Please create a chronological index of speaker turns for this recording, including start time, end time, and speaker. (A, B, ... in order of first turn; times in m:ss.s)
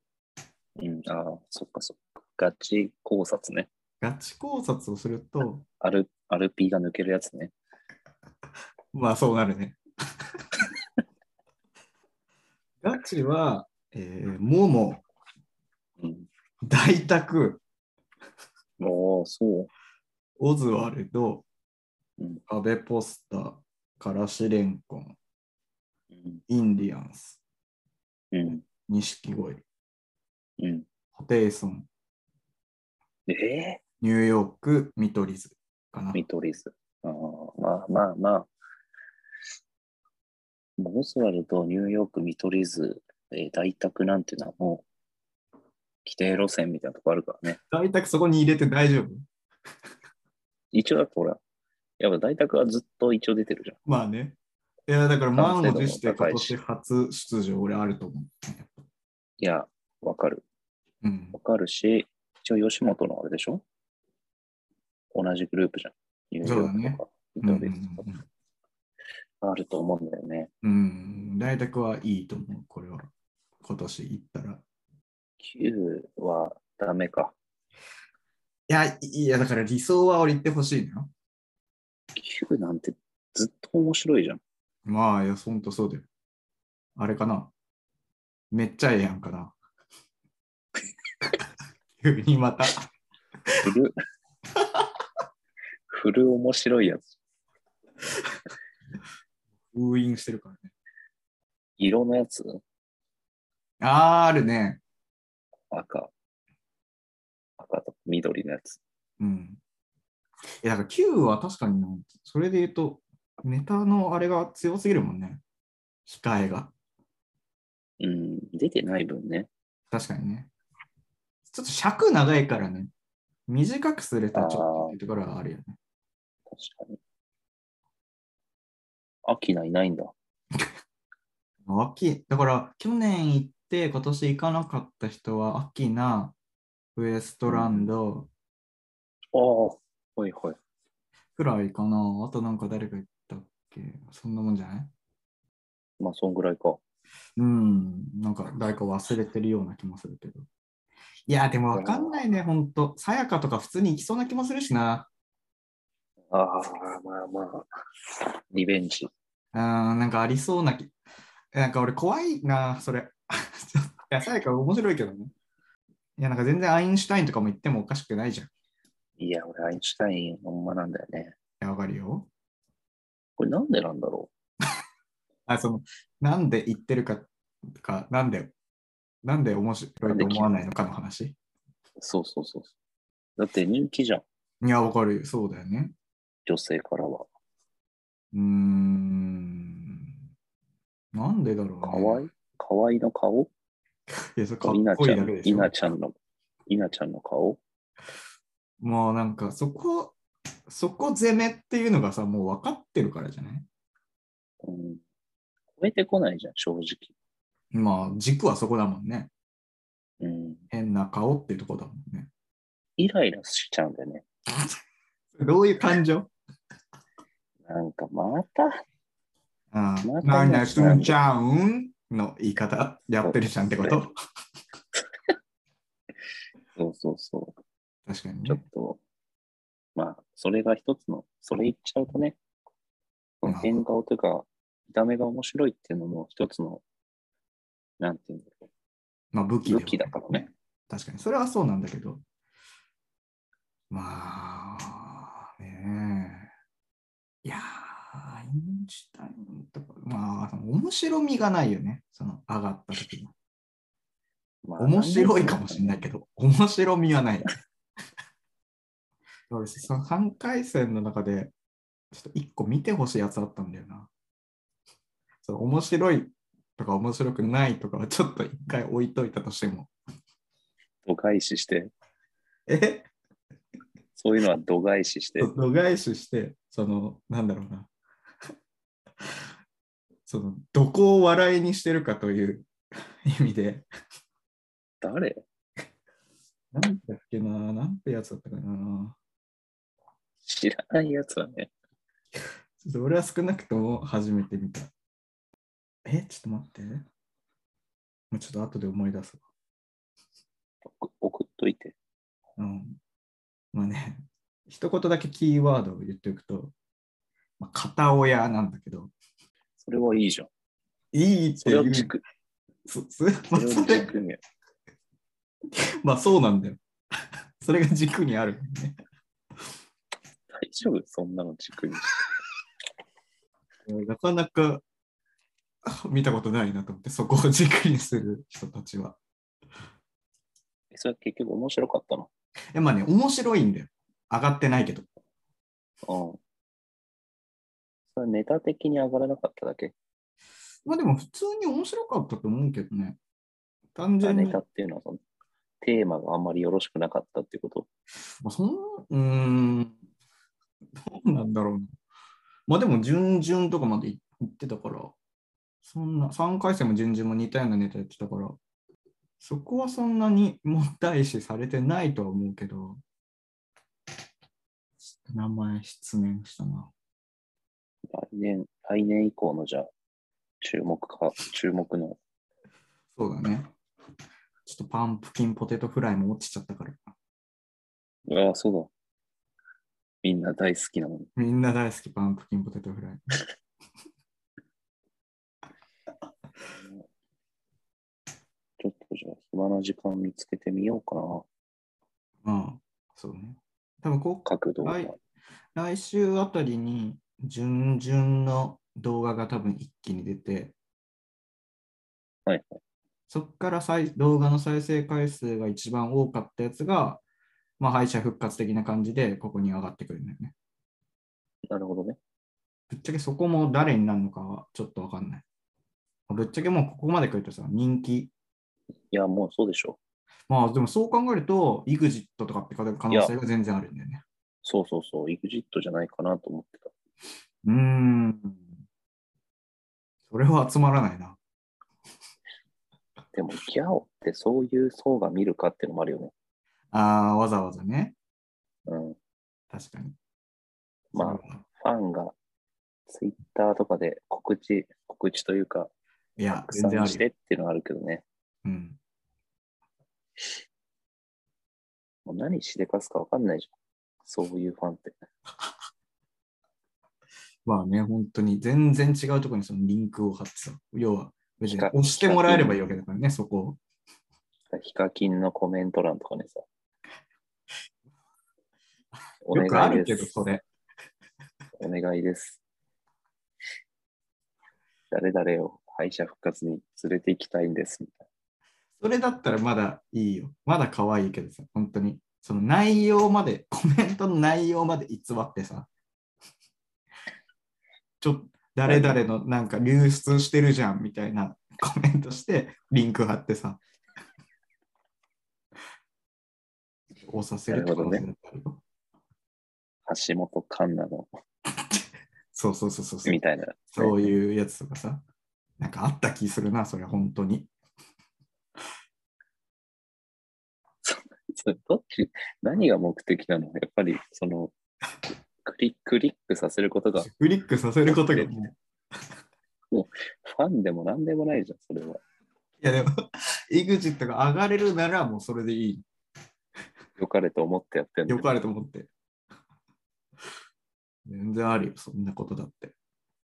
0:00.8-0:03.7 A
0:04.0-0:05.6 B
0:05.8-0:07.5 A
0:08.9-0:09.8 B
0:10.3-0:10.6 B
0:12.8-0:15.0 B
0:16.0-0:16.3 A
0:16.6-0:17.6 B
0:18.8-0:19.7 A
0:20.4-0:21.4 B
0:22.5-0:25.2 B
0:26.1-0:26.4 A
0:26.5-0:27.4 B
0:28.3-0:28.6 A
0:28.6-0:29.6 B
0:30.6-0:30.9 A
0:31.2-0:31.9 B
0:33.3-0:33.8 A
0:34.0-0:36.2 B
0:36.1-0:38.5 A
0:40.8-0:44.8 A
0:46.0-0:47.6 A
0:47.7-0:49.2 B
0:50.7-0:51.4 A
0:52.0-0:53.8 A
0:53.9-0:54.4 B
0:54.9-0:58.8 B
0:55.4-0:56.6 A
0:59.4-1:00.4 A
1:01.0-1:01.4 B
1:01.3-1:03.6 A
1:05.1-1:08.1 A
1:06.4-1:08.2 B
1:09.4-1:10.5 A
1:10.6-1:13.1 B
1:13.6-1:14.6 B
1:15.4-1:17.4 A
1:18.7-1:21.1 B
1:22.2-1:24.4 A
1:24.8-1:26.1 B
1:27.0-1:27.5 B
1:28.5-1:29.6 B
1:32.0-1:32.9 B
1:33.6-1:33.9 A
1:34.6-1:34.9 B
1:35.9-1:37.1 A
1:39.7-1:40.7 B
1:41.8-1:42.6 A
1:43.8-1:44.8 B
1:45.7-1:46.1 A
1:47.6-1:48.8 A
1:49.2-1:49.6 B
1:50.6-1:55.4 B
1:56.1-1:56.7 B
1:58.0-1:59.5 A
1:59.9-2:00.5 B
2:01.5-2:02.9 B
2:03.5-2:05.8 B
2:04.3-2:05.0 A
2:06.5-2:07.0 A
2:09.2-2:10.1 A
2:11.6-2:16.4 B
2:17.0-2:18.3 B
2:17.5-2:17.9 A
2:19.3-2:20.6 A
2:21.4-2:24.9 B
2:26.0-2:26.8 A
2:27.4-2:30.5 B
2:31.3-2:35.1 B
2:31.7-2:32.2 A
2:36.3-2:37.7 A
2:38.5-2:39.1 A
2:39.5-2:40.9 B
2:41.5-2:45.3 B
2:46.2-2:48.5 B
2:49.2-2:51.4 A
2:51.6-2:52.3 B
2:53.4-2:54.3 A
2:55.5-2:58.5 B
2:59.2-3:01.4 B
3:00.0-3:00.5 A
3:02.0-3:02.7 A
3:03.4-3:04.2 A
3:04.6-3:05.9 B
3:06.5-3:07.3 A
3:08.3-3:10.2 B
3:11.1-3:12.2 B
3:11.8-3:13.5 A
3:14.1-3:15.8 B
3:14.6-3:16.2 A
3:16.7-3:17.6 A
3:18.8-3:20.2 B
3:20.7-3:23.7 B
3:24.6-3:25.0 A
3:25.8-3:27.1 A
3:27.7-3:29.3 B
3:30.2-3:30.6 A
3:30.7-3:32.3 B
3:33.0-3:34.2 A
3:34.5-3:34.8 B
3:35.3-3:36.3 B
3:37.6-3:38.7 A
3:39.7-3:44.1 B
3:40.0-3:41.2 A
3:43.2-3:44.0 A
3:46.8-3:47.6 A
3:48.1-3:48.6 B
3:48.5-3:49.0 A
3:50.0-3:52.4 A
3:53.4-3:56.8 A
3:53.4-3:53.8 B
3:58.0-3:58.6 A
3:59.3-4:02.2 B
3:59.7-4:00.5 A
4:03.9-4:06.5 B
4:07.4-4:13.3 B
4:14.7-4:16.0 A
4:14.8-4:17.5 B
4:19.5-4:21.5 B
4:22.1-4:24.1 B
4:25.4-4:29.9 B
4:31.1-4:31.9 A
4:32.7-4:33.1 B
4:34.2-4:35.5 A
4:35.4-4:37.9 B
4:40.3-4:42.7 B
4:43.2-4:43.9 B
4:45.0-4:45.5 A
4:46.7-4:49.2 B
4:50.4-4:51.7 A
4:52.8-4:54.9 B
4:56.0-4:57.0 B
4:58.3-4:59.4 B
5:00.8-5:02.0 A
5:02.6-5:03.0 B
5:03.7-5:06.7 B
5:07.6-5:09.1 B
5:09.8-5:10.5 A
5:11.1-5:12.1 B
5:11.6-5:12.2 A
5:12.9-5:14.1 B
5:13.5-5:14.4 A
5:15.8-5:16.8 B
5:17.6-5:19.0 B
5:20.5-5:22.2 A
5:23.9-5:24.8 B
5:25.8-5:29.2 B
5:30.9-5:32.3 A
5:32.7-5:35.1 B
5:36.1-5:36.4 A
5:38.1-5:39.9 A
5:40.9-5:43.2 B
5:44.0-5:44.6 B
5:44.2-5:45.2 A
5:45.8-5:47.9 A
5:48.4-5:50.0 B
5:51.0-5:51.9 B
5:52.7-5:55.2 B
5:55.8-5:58.6 B
5:59.4-6:03.0 B
6:05.2-6:06.9 B
6:08.1-6:09.9 A
6:10.6-6:12.2 A
6:13.2-6:13.7 B
6:14.7-6:17.0 B
6:18.3-6:18.9 A
6:20.2-6:21.3 A
6:21.4-6:23.4 B
6:26.7-6:27.1 A
6:28.8-6:31.5 A
6:32.4-6:35.2 B
6:34.4-6:35.2 A
6:35.8-6:40.8 B
6:42.5-6:42.8 A
6:43.3-6:47.2 B
6:47.8-6:50.5 B
6:51.7-6:52.2 A
6:52.9-6:55.4 B
6:56.3-6:58.3 B
6:59.1-7:00.0 A
7:00.5-7:04.2 B
7:04.6-7:06.9 A
7:07.6-7:08.7 B
7:10.3-7:11.4 B
7:13.3-7:16.3 A
7:16.9-7:18.2 B
7:18.9-7:19.2 A
7:19.7-7:20.2 B
7:21.1-7:21.6 B
7:21.1-7:22.4 A
7:23.1-7:25.9 A
7:26.4-7:27.2 B
7:26.5-7:28.2 A
7:28.6-7:29.0 B
7:32.3-7:33.7 A
7:34.2-7:35.2 A
7:37.6-7:43.8 B
7:41.7-7:43.0 A
7:44.7-7:46.6 A
7:49.4-7:50.3 A
7:49.5-7:50.6 B
7:51.8-7:52.6 A
7:55.1-7:58.3 A
7:59.0-8:05.9 B
8:08.2-8:13.8 B
8:08.9-8:09.2 A
8:17.2-8:18.8 B
8:17.7-8:18.3 A
8:20.1-8:21.3 A
8:22.5-8:23.4 B
8:23.2-8:24.3 A
8:23.9-8:25.2 B
8:25.8-8:27.7 B
8:31.0-8:34.7 A
8:35.6-8:37.3 A
8:37.2-8:38.8 B
8:38.1-8:38.7 A
8:39.9-8:42.2 A
8:42.8-8:43.1 B
8:43.7-8:46.0 B
8:47.2-8:48.5 A
8:48.3-8:49.1 B
8:51.3-8:52.9 B